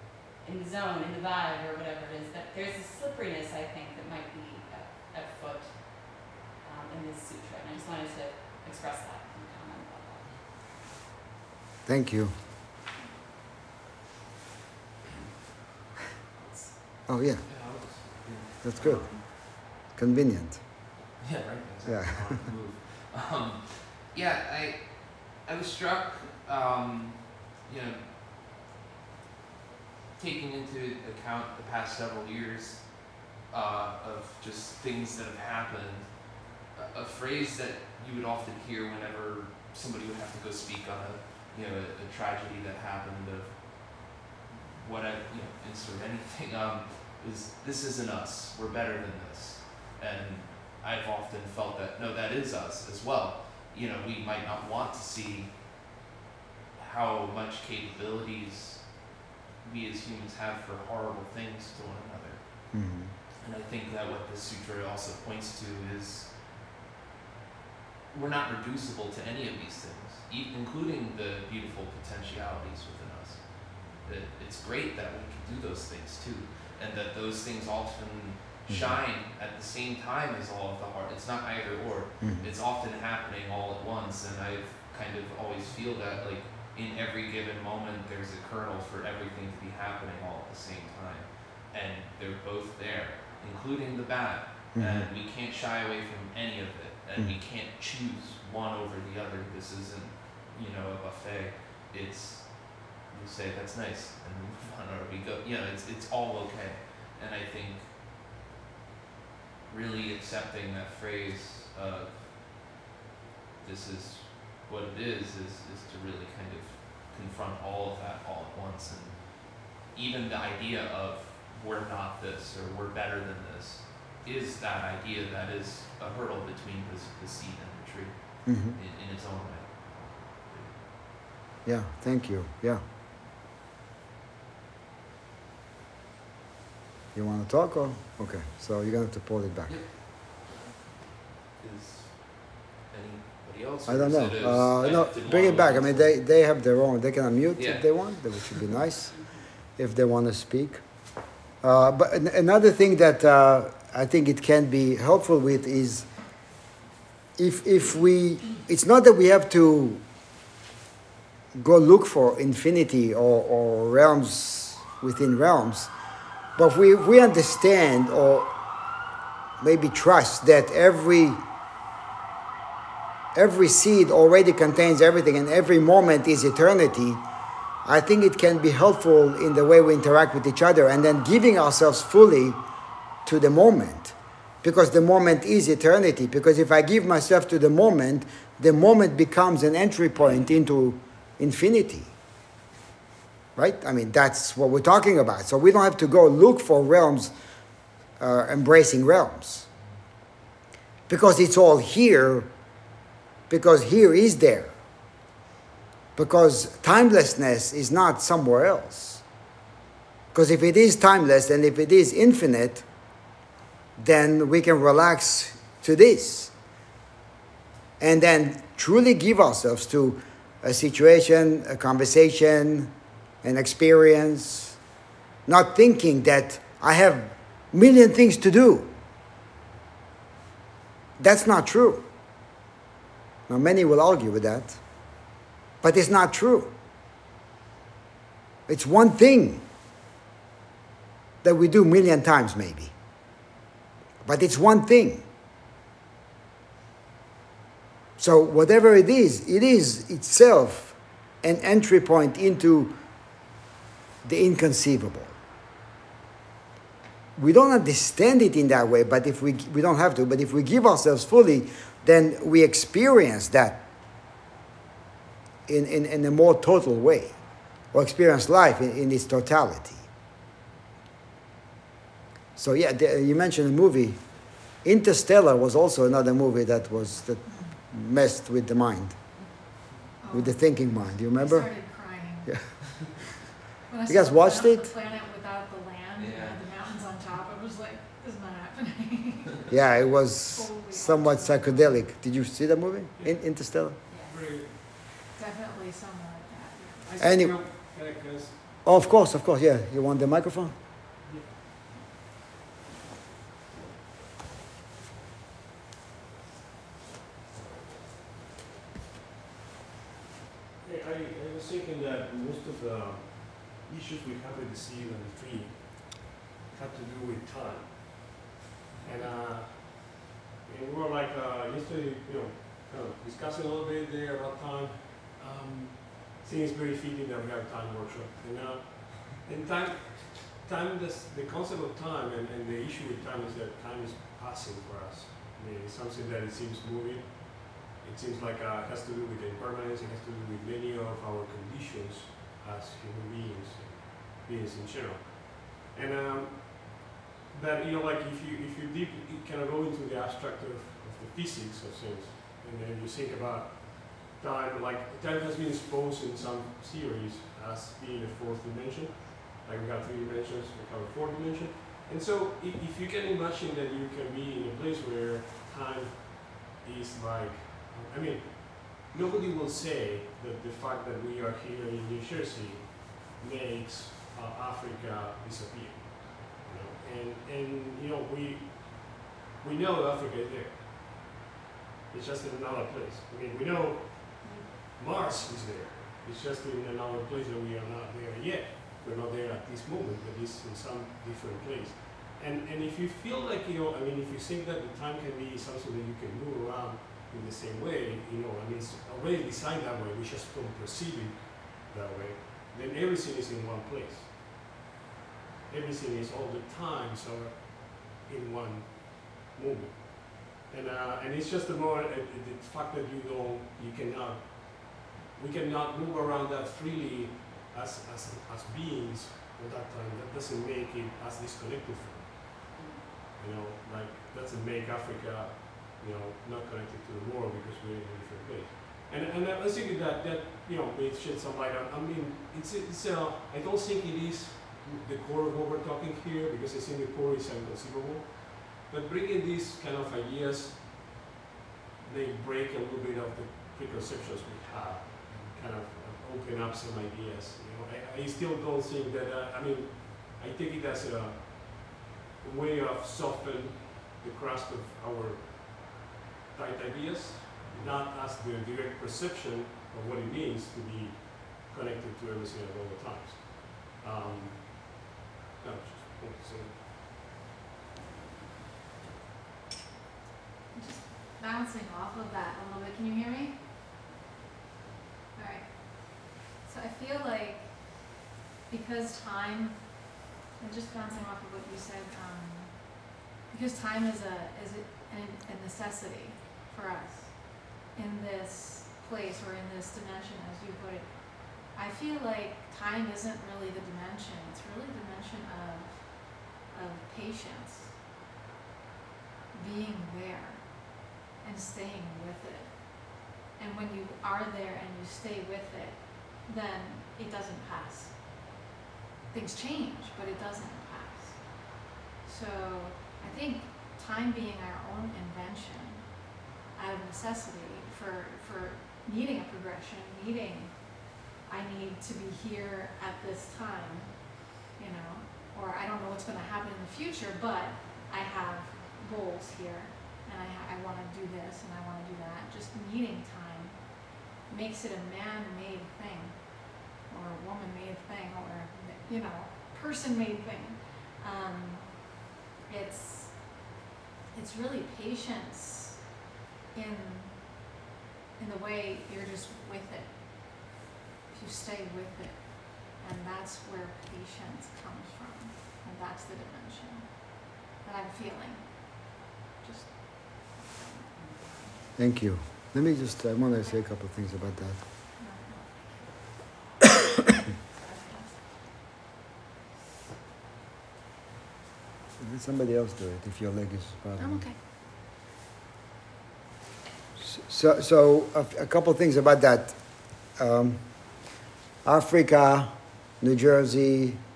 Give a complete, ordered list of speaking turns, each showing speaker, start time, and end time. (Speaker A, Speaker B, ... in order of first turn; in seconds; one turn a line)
Speaker A: 0.4-10.4
Speaker B: 11.9-12.3
Speaker A: 16.3-16.8
Speaker B: 17.1-17.4
Speaker C: 17.4-19.2
Speaker B: 18.6-20.6
Speaker C: 21.2-28.2
Speaker B: 21.8-22.4
Speaker C: 30.1-55.6
Speaker C: 56.7-62.8
Speaker B: 62.7-63.1
Speaker C: 63.4-66.4
Speaker C: 68.1-107.9
Speaker B: 78.7-79.0
Speaker B: 82.2-82.5
Speaker B: 94.7-95.1
Speaker C: 109.7-112.3
Speaker C: 113.6-130.8
Speaker B: 128.4-128.8
Speaker B: 131.6-132.8
Speaker B: 137.1-139.7
Speaker C: 139.7-140.8
Speaker C: 141.6-146.1
Speaker B: 143.9-149.2
Speaker C: 147.6-148.7
Speaker B: 149.8-150.8
Speaker B: 151.6-156.1
Speaker B: 157.4-160.0
Speaker B: 161.6-165.9
Speaker B: 166.6-168.5
Speaker B: 169.6-171.4
Speaker B: 173.3-177.2
Speaker B: 177.8-182.6
Speaker B: 183.3-192.1
Speaker B: 193.6-197.3
Speaker B: 198.2-199.7
Speaker B: 201.1-202.5
Speaker B: 203.5-204.7
Speaker B: 206.2-209.2
Speaker B: 210.3-212.8
Speaker B: 214.0-216.5
Speaker B: 218.0-224.8
Speaker B: 225.4-228.9
Speaker B: 231.2-232.1
Speaker B: 233.5-234.8
Speaker B: 235.8-236.7
Speaker B: 238.7-239.6
Speaker B: 241.4-242.9
Speaker B: 244.2-245.2
Speaker B: 248.2-253.0
Speaker B: 254.2-255.3
Speaker B: 257.4-263.8
Speaker B: 265.7-267.4
Speaker B: 267.9-270.0
Speaker B: 272.6-274.2
Speaker B: 274.8-279.2
Speaker D: 280.2-282.7
Speaker B: 280.3-282.6
Speaker D: 283.9-290.0
Speaker B: 284.1-284.9
Speaker C: 286.1-286.6
Speaker B: 289.7-294.0
Speaker D: 290.5-292.1
Speaker E: 294.1-294.9
Speaker D: 295.3-297.1
Speaker E: 297.0-298.6
Speaker B: 297.2-297.6
Speaker B: 298.8-300.7
Speaker E: 301.2-301.7
Speaker E: 310.8-318.3
Speaker E: 319.0-381.3
Speaker E: 382.1-404.4
Speaker E: 405.7-422.6
Speaker E: 423.3-441.1
Speaker E: 442.0-466.8
Speaker D: 470.7-473.6
Speaker D: 475.3-498.0
Speaker D: 499.5-508.2
Speaker D: 509.3-543.7
Speaker D: 544.3-546.1
Speaker D: 546.7-547.7
Speaker D: 548.4-550.7
Speaker D: 551.3-561.9
Speaker B: 562.0-564.8
Speaker D: 565.1-566.8
Speaker D: 567.7-568.3
Speaker B: 572.2-574.5
Speaker D: 574.2-574.6
Speaker B: 577.2-579.8
Speaker B: 580.4-580.8
Speaker B: 581.8-584.2